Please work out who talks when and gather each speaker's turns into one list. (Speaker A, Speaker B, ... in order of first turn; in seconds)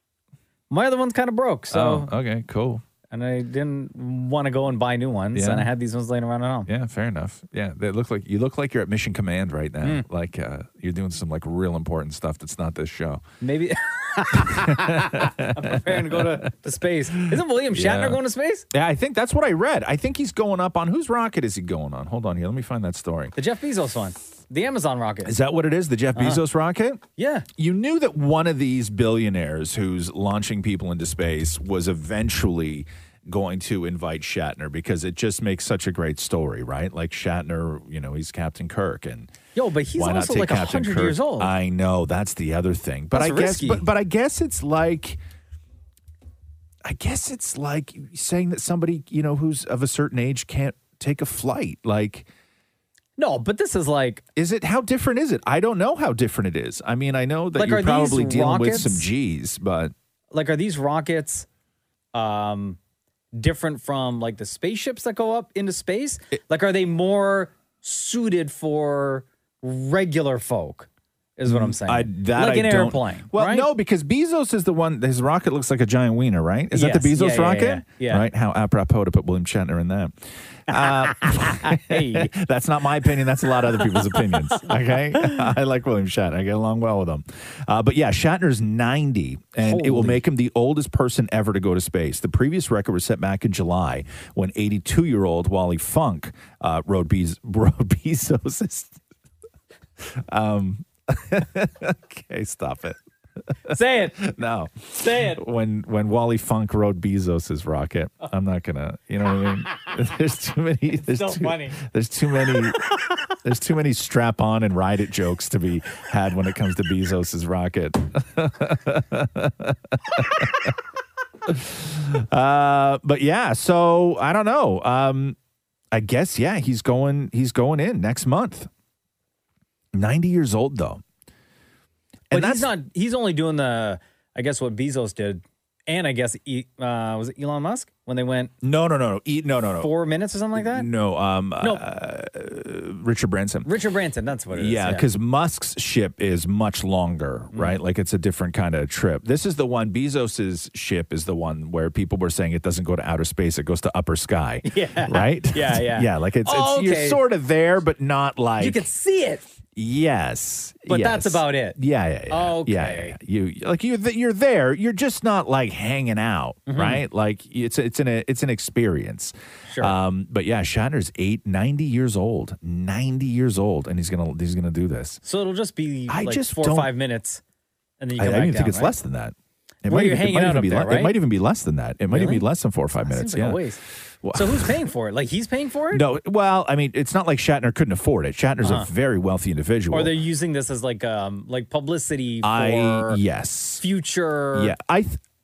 Speaker A: 0.7-2.1, 3.1-6.7, 13.4-18.6, 23.4-25.3, 26.1-26.4, 27.2-27.5, 39.5-41.5, 43.1-43.9, 53.2-54.2, 57.6-59.1, 60.3-61.5, 62.1-62.8, 63.4-73.7, 76.7-78.3, 80.7-82.3, 84.1-85.4, 89.6-90.2, 103.7-104.2, 105.0-105.4, 111.1-111.8, 132.3-138.5, 139.8-140.9, 143.7-145.1, 147.5-147.8, 154.7-157.2, 158.6-159.4, 160.9-161.8, 162.3-163.2, 166.7-167.0, 169.7-169.9, 175.2-177.4, 178.0-178.9, 179.9-181.2, 182.1-182.4, 183.0-183.8, 184.3-186.1, 188.6-188.9, 189.9-193.2, 193.8-194.7
Speaker B: 1.7-2.8, 5.3-5.7, 6.7-13.2, 14.4-16.5, 17.1-18.2, 18.7-23.4, 25.2-27.0, 27.6-39.3, 39.9-45.2, 46.8-52.3, 54.4-59.9, 71.5-99.0, 100.0-103.0, 103.7-112.8, 113.4-120.7, 121.5-125.4, 125.9-128.7, 129.9-131.0, 132.3-132.7, 138.6-139.9, 140.6-143.7, 144.5-158.9, 159.7-175.2, 176.1-176.9, 178.2-183.7, 184.2-184.8, 185.9-190.1, 192.4-193.8, 194.5-195.2